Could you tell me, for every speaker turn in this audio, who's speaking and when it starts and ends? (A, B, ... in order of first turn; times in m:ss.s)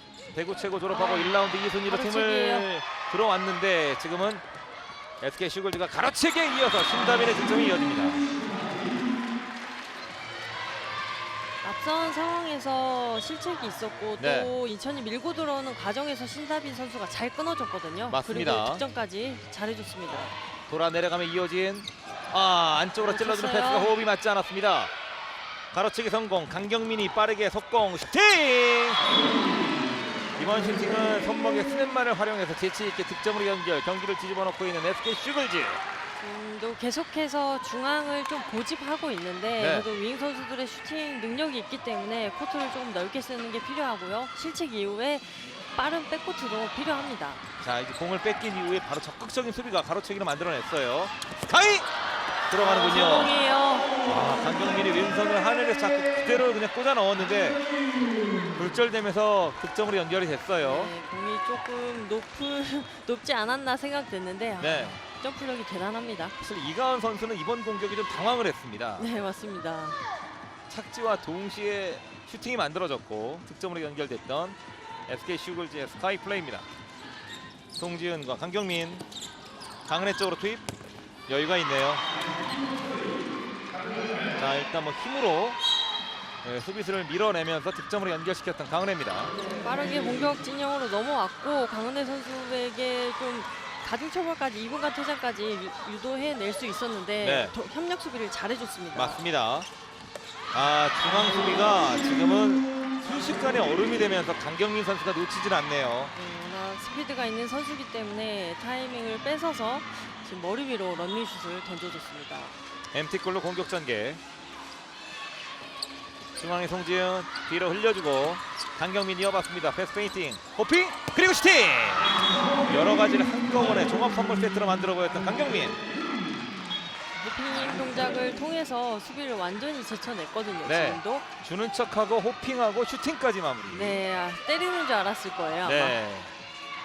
0:00.3-0:04.4 A
0:00.9-0:01.3 B
0:01.9-0:02.7 B
0:05.2-0:08.2 A
0:11.6-0:20.3 B
0:14.2-0:14.5 A
0:18.1-0:18.8 A
0:20.7-0:24.9 A
0:23.0-0:24.0 B
0:25.7-0:29.0 A
0:30.4-0:35.8 A
0:36.2-0:47.4 B
0:39.6-0:39.9 A
0:47.6-0:51.9 A
0:52.5-0:53.3 A
0:52.6-0:53.9 B
0:54.0-0:57.6 A
0:58.6-1:00.9 A
1:00.6-1:06.4 B
1:04.6-1:05.0 A
1:06.4-1:09.1 A
1:09.0-1:10.0 B
1:10.7-1:16.7 A
1:17.8-1:19.0 A
1:19.8-1:20.7 A
1:21.3-1:22.1 A
1:24.3-1:25.6 A
1:26.4-1:29.3 A
1:29.5-1:39.2 B
1:37.2-1:37.5 A
1:38.9-1:39.7 A
1:40.5-1:46.1 A
1:46.1-1:52.6 B
1:52.9-1:54.2 A
1:56.4-2:05.8 A
2:07.1-2:11.3 B
2:10.6-2:14.0 A
2:13.7-2:16.0 B
2:15.6-2:16.3 A